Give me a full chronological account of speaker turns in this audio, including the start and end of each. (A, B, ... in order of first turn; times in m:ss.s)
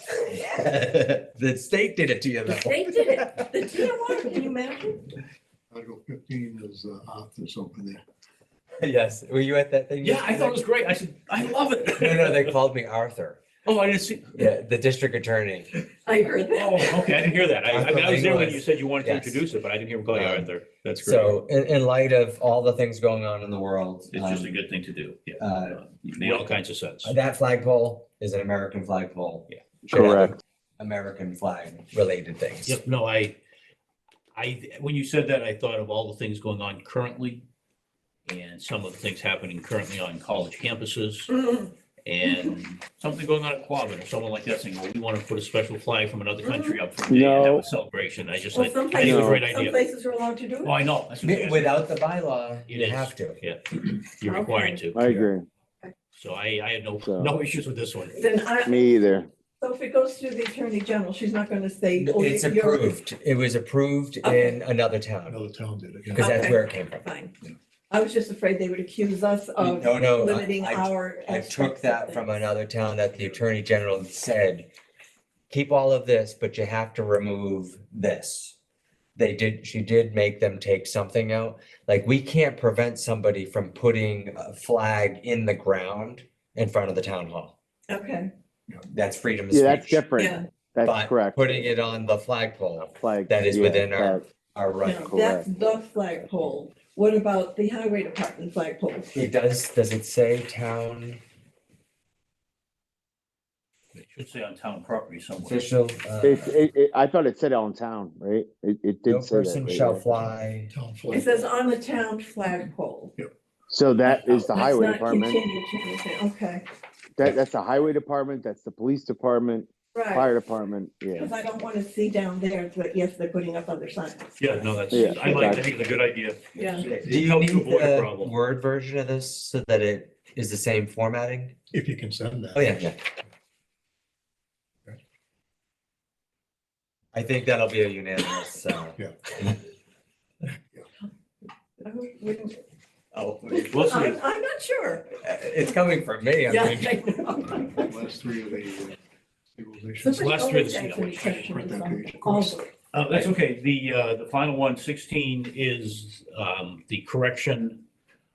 0:00.3-0:03.5 A
0:02.5-0:05.2 B
0:05.7-0:08.0 C
0:08.8-0:10.6 A
0:10.0-0:12.5 D
0:11.9-0:13.4 A
0:13.6-0:14.5 D
0:14.3-0:15.7 A
0:16.0-0:17.2 B
0:16.5-0:21.4 D
0:17.7-0:19.4 A
0:20.1-0:20.5 A
0:21.0-0:24.5 A
0:24.1-0:27.2 D
0:25.4-0:32.8 A
0:29.9-0:30.4 E
0:32.6-0:33.4 D
0:34.3-0:37.4 D
0:38.2-0:41.3 D
0:41.3-0:41.7 B
0:42.0-0:49.8 D
0:42.2-0:42.5 B
0:46.4-0:46.8 B
0:47.1-0:47.6 E
0:48.5-0:50.7 B
0:49.0-0:49.4 E
0:50.6-0:51.9 D
0:51.2-0:53.4 A
0:52.6-0:55.3 D
0:54.2-0:54.8 B
0:54.9-0:55.5 E
0:56.1-0:58.2 D
0:57.0-0:57.4 E
0:58.1-0:58.9 B
0:58.6-0:59.3 E
0:59.6-1:02.8 B
1:02.0-1:05.4 A
1:04.2-1:04.6 B
1:05.3-1:06.4 C
1:06.1-1:07.0 A
1:06.2-1:07.3 B
1:07.9-1:12.2 B
1:09.6-1:14.7 A
1:15.5-1:18.6 A
1:19.2-1:27.5 A
1:27.9-1:28.3 B
1:28.9-1:30.0 A
1:29.5-1:31.7 E
1:30.2-1:30.5 B
1:30.8-1:35.1 A
1:33.0-1:34.2 E
1:34.8-1:39.2 B
1:35.0-1:35.5 E
1:39.1-1:41.2 A
1:43.9-1:45.6 D
1:45.4-1:46.5 A
1:46.2-1:50.2 E
1:49.1-1:50.7 A
1:50.7-1:51.4 C
1:51.1-1:53.1 B
1:53.7-1:55.4 E
1:54.5-1:56.6 B
1:57.2-2:01.3 E
1:59.9-2:00.3 B
2:01.1-2:04.3 B
2:04.4-2:08.3 D
2:04.9-2:05.7 E
2:06.5-2:06.9 B
2:06.9-2:11.6 A
2:11.7-2:12.7 C
2:12.5-2:13.0 A
2:17.1-2:19.6 A
2:21.8-2:22.6 B
2:23.1-2:23.7 A
2:23.6-2:25.1 B
2:23.7-2:24.2 D
2:25.2-2:27.1 A
2:26.5-2:27.9 B
2:27.8-2:29.0 C
2:29.6-2:30.3 C
2:30.0-2:32.7 B
2:30.1-2:31.4 D
2:31.2-2:32.6 C
2:32.9-2:37.8 D